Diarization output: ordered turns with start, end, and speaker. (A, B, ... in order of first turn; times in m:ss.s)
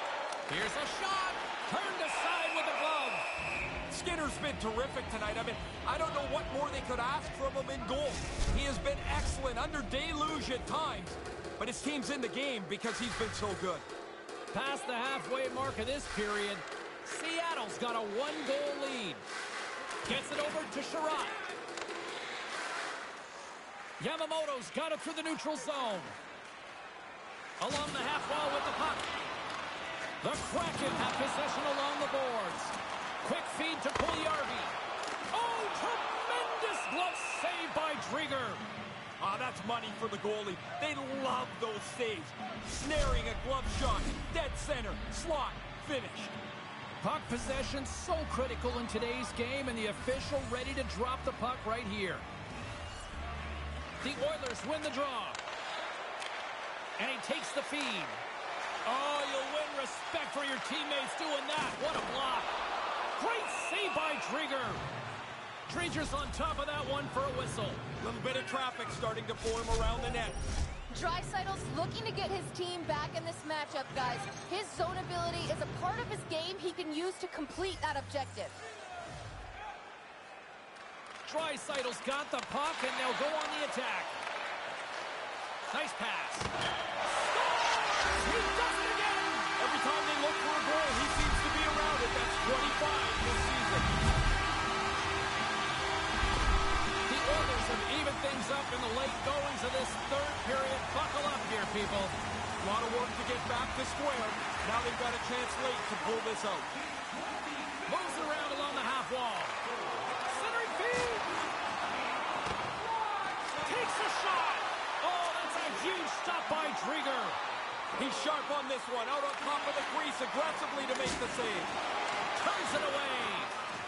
0:00.5-0:03.2 A
0:03.9-0:13.8 B
0:14.5-0:19.2 A
0:20.0-0:21.4 A
0:24.0-0:26.2 A
0:27.6-0:29.1 A
0:30.2-0:34.8 A
0:35.3-0:38.6 A
0:39.2-0:46.3 B
0:47.0-0:52.2 A
0:54.0-0:55.4 A
0:57.0-0:58.2 A
0:58.8-1:02.5 A
1:03.2-1:04.8 A
1:05.7-1:07.8 A
1:08.0-1:10.4 B
1:10.9-1:18.6 C
1:21.2-1:24.2 A
1:25.7-1:26.5 A
1:27.0-1:29.5 A
1:29.6-1:33.9 B
1:37.0-1:42.2 A
1:42.6-1:46.7 B
1:47.8-1:49.6 A
1:50.2-1:51.3 A
1:53.6-1:57.4 A
1:57.9-2:01.7 B
2:02.3-2:03.5 A